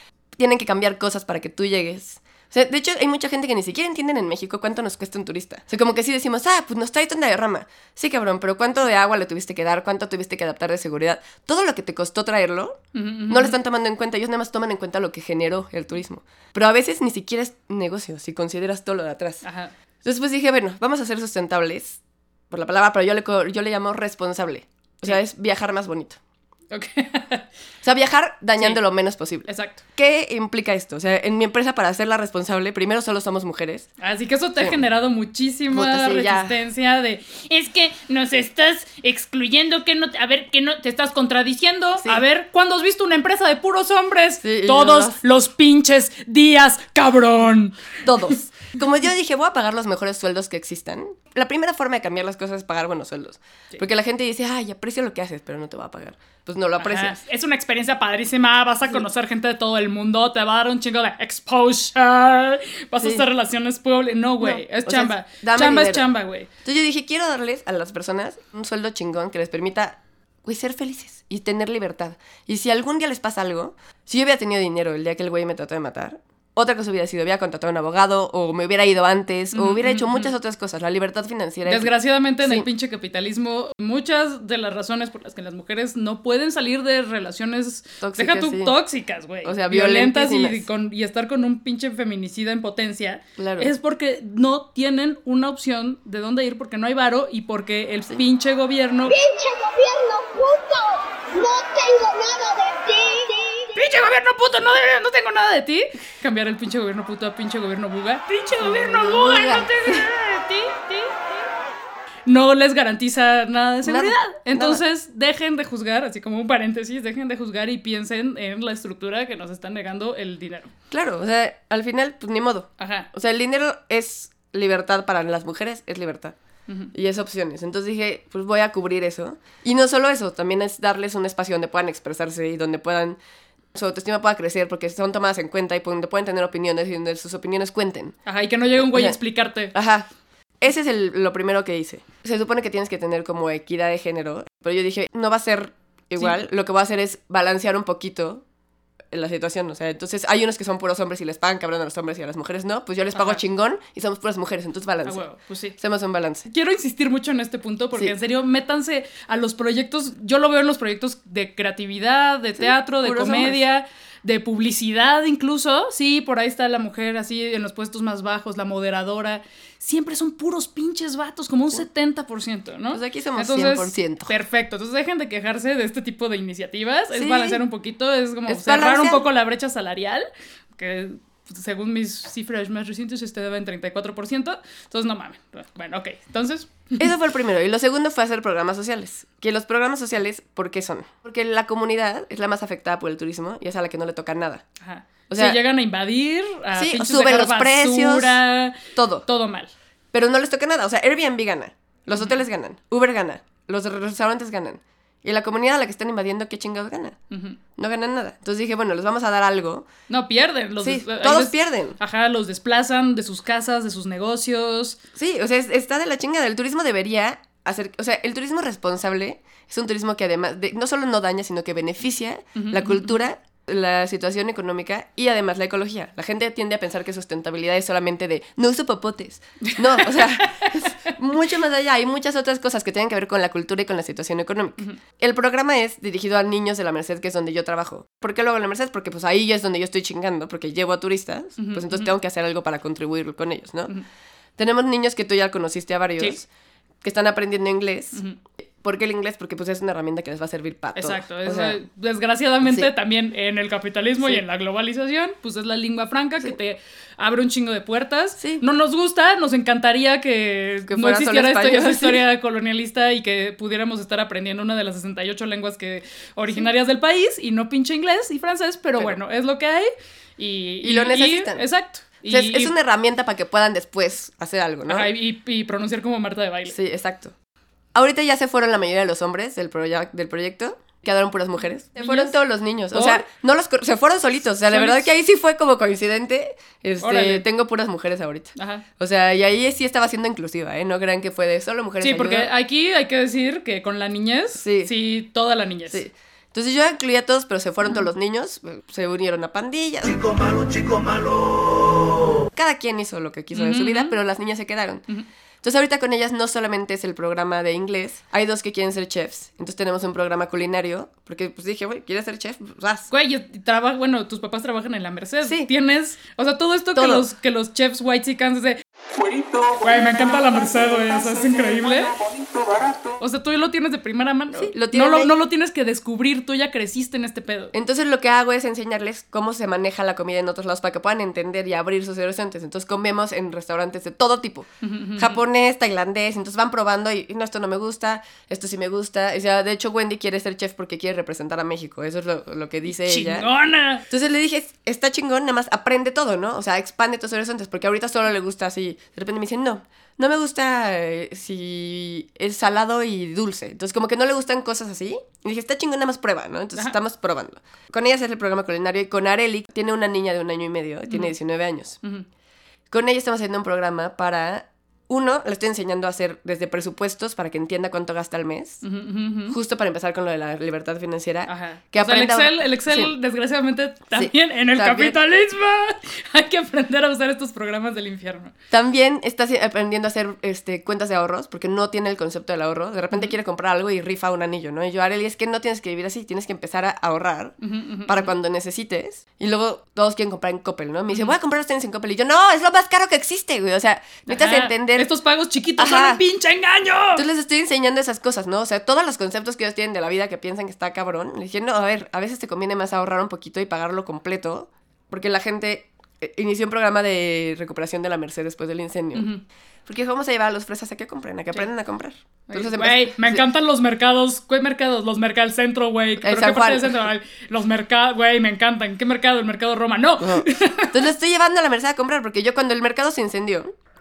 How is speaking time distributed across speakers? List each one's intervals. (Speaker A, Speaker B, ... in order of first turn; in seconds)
Speaker A: 0.3-19.4, 20.0-26.2, 27.8-33.9, 35.7-36.5, 42.0-42.2, 44.4-45.2, 48.0-57.2, 63.0-63.2, 64.4-66.0, 66.6-82.7, 88.0-88.8, 89.4-90.6, 93.4-93.7, 108.6-110.1, 113.8-114.8, 120.9-126.3, 126.9-133.2, 133.7-138.2, 138.8-139.2, 139.7-140.1, 140.6-148.4, 149.1-155.2, 155.8-156.5, 162.6-163.6, 172.9-174.3, 177.1-177.6, 178.5-179.2, 187.0-194.7, 195.3-195.6, 196.7-199.2, 200.1-207.2, 207.8-209.9, 210.8-212.0, 215.2-243.9, 244.6-246.5, 247.0-248.2, 248.8-251.8, 252.6-252.9, 258.4-258.6, 260.9-262.2, 270.8-271.6, 272.3-275.1, 276.7-277.3, 277.9-292.5, 294.6-294.9, 295.9-301.5, 302.3-305.0, 305.6-313.1, 315.4-315.7, 316.9-317.3, 324.5-325.3, 327.7-343.5, 344.1-362.0, 362.9-368.8, 369.5-373.1, 374.1-375.1, 378.7-387.5, 388.1-395.1, 395.8-396.2, 397.1-409.3, 409.9-413.4, 416.2-417.0, 420.2-423.7
Speaker B: 12.9-13.6, 19.4-19.7, 26.7-27.5, 29.5-29.8, 34.0-47.8, 56.8-66.5, 79.5-80.3, 81.7-99.2, 103.7-111.4, 112.3-120.7, 122.8-123.1, 138.2-139.7, 153.1-153.4, 155.1-155.8, 156.5-180.2, 180.8-187.1, 194.8-199.7, 207.3-207.6, 210.1-215.0, 222.6-223.1, 229.6-231.1, 241.6-242.1, 250.9-272.7, 274.9-276.8, 281.9-282.4, 282.9-283.2, 284.7-285.1, 287.0-287.4, 288.6-288.8, 292.0-296.0, 303.5-304.1, 313.1-322.2, 323.1-327.7, 334.8-335.4, 343.0-344.0, 368.8-369.5, 371.5-378.5, 387.6-388.3, 394.3-397.2, 409.1-409.4, 412.5-421.0
Speaker C: 99.1-103.7